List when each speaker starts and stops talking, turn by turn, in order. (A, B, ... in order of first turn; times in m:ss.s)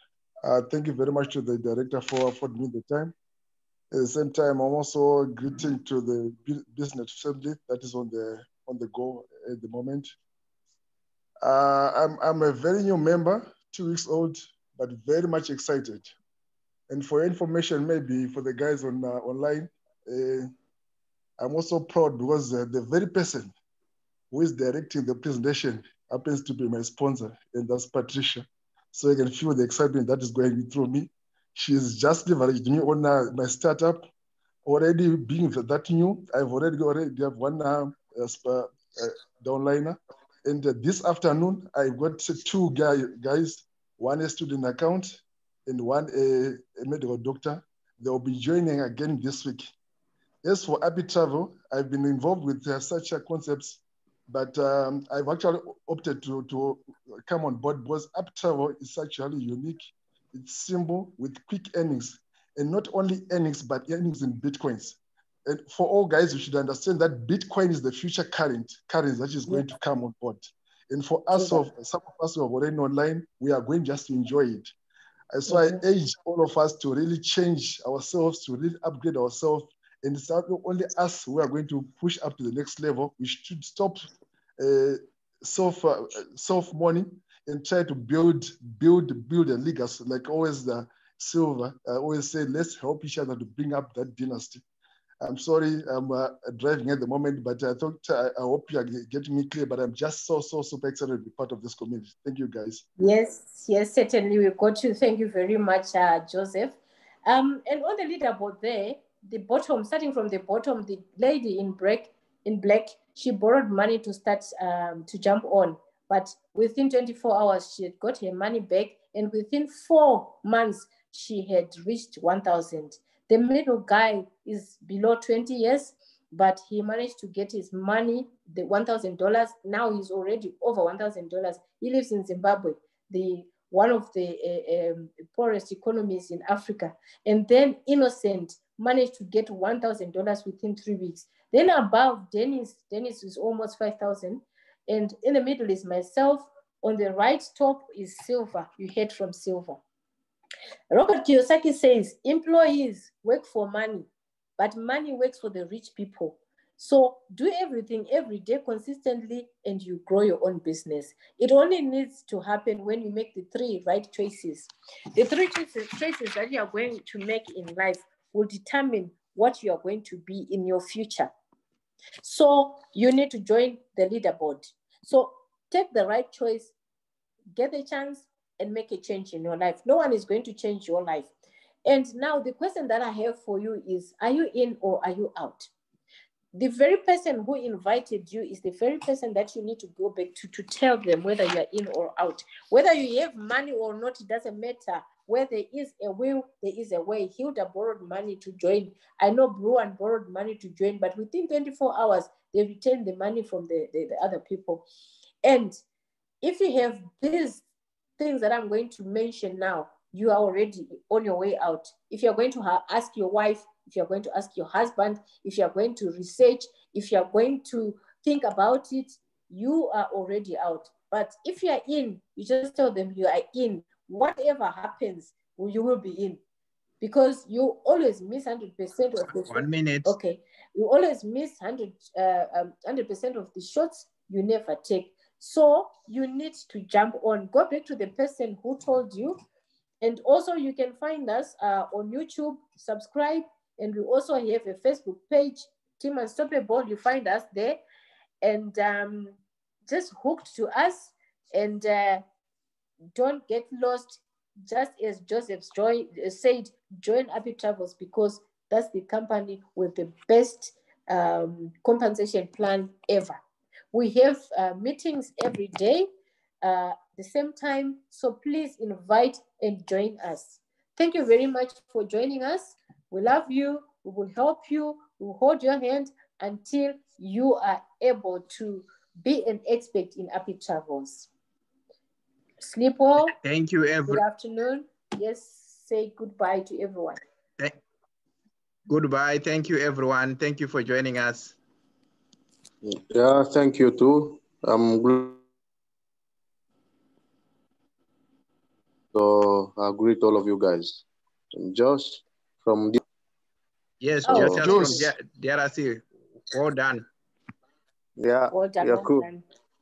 0:00.4-0:03.1 A
0:03.9-0:10.1 A
0:11.4-0:16.1 A
0:16.9-0:20.5 A
0:21.4-0:23.5 A
0:24.3-0:34.1 A
0:34.6-0:49.7 A
0:50.4-1:14.7 A
1:11.3-1:11.6 B
1:15.3-1:34.6 A
1:15.5-1:15.8 B
1:35.2-1:42.8 A
1:43.0-2:29.8 B
2:30.9-2:34.1 B
2:34.6-2:51.3 B
2:52.2-2:56.7 B
2:57.6-3:01.3 B
3:01.8-3:05.7 B
3:06.6-3:24.8 B
3:25.4-3:25.8 B
3:26.4-3:27.6 B
3:28.2-3:46.4 B
3:47.0-3:59.4 B
3:49.4-3:50.2 C
4:00.0-4:07.8 B
4:08.4-4:12.2 B
4:13.2-4:23.4 B
4:23.9-4:26.1 B
4:26.6-4:41.3 B
4:42.6-4:43.3 B
4:43.3-4:44.2 C
4:44.1-4:47.2 B
4:48.9-4:51.6 C
4:52.8-4:55.4 D
4:59.1-5:03.0 D
5:04.0-5:07.1 C
5:04.2-5:05.0 B
5:04.3-5:04.9 D
5:04.3-5:05.0 A
5:08.2-5:09.3 D
5:08.5-5:09.4 B